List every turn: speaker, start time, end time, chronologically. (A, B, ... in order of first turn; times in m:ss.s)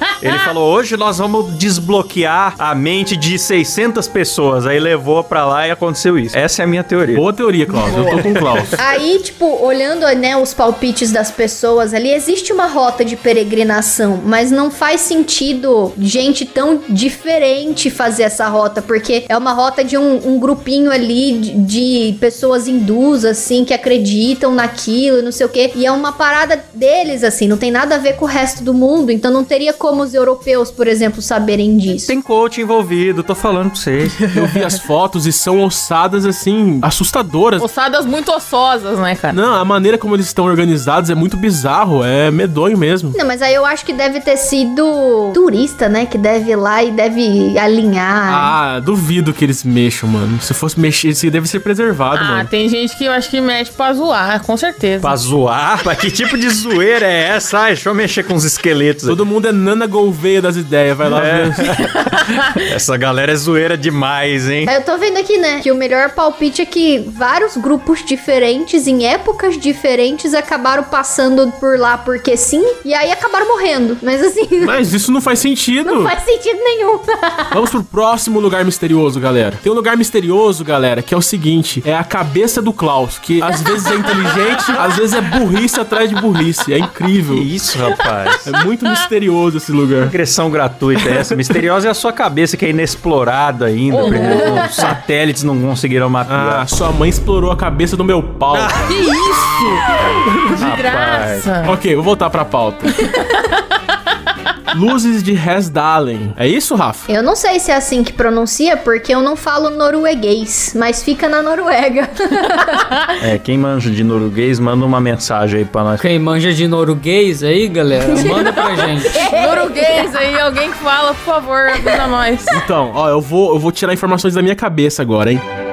0:00.2-0:07.3 A
0:07.1-0:08.8 B
0:07.8-0:08.7 A
0:08.8-0:32.1 C
0:32.0-0:34.2 A
0:34.2-0:37.7 B
0:37.6-0:39.4 D
0:39.3-0:43.2 B
0:43.1-0:48.6 C
0:48.3-0:52.5 B
0:52.2-0:55.2 D
0:55.0-0:59.2 A
0:59.1-1:01.8 B
1:01.1-1:04.7 A
1:04.7-1:14.8 C
1:14.6-1:16.1 B
1:15.8-1:17.6 C
1:17.5-1:27.5 B
1:27.3-1:28.5 A
1:28.4-1:30.1 B
1:30.0-1:36.7 A
1:31.0-1:31.4 B
1:33.9-1:34.9 D
1:36.3-1:38.8 B
1:38.5-1:39.0 A
1:38.8-1:39.9 D
1:40.5-1:41.8 D
1:40.6-1:41.5 A
1:41.6-1:43.1 B
1:44.7-1:47.1 B
1:47.1-1:52.9 C
1:53.2-1:56.0 A
1:56.0-1:59.2 E
1:58.1-2:00.1 C
1:59.1-2:02.6 D
2:02.5-2:05.4 B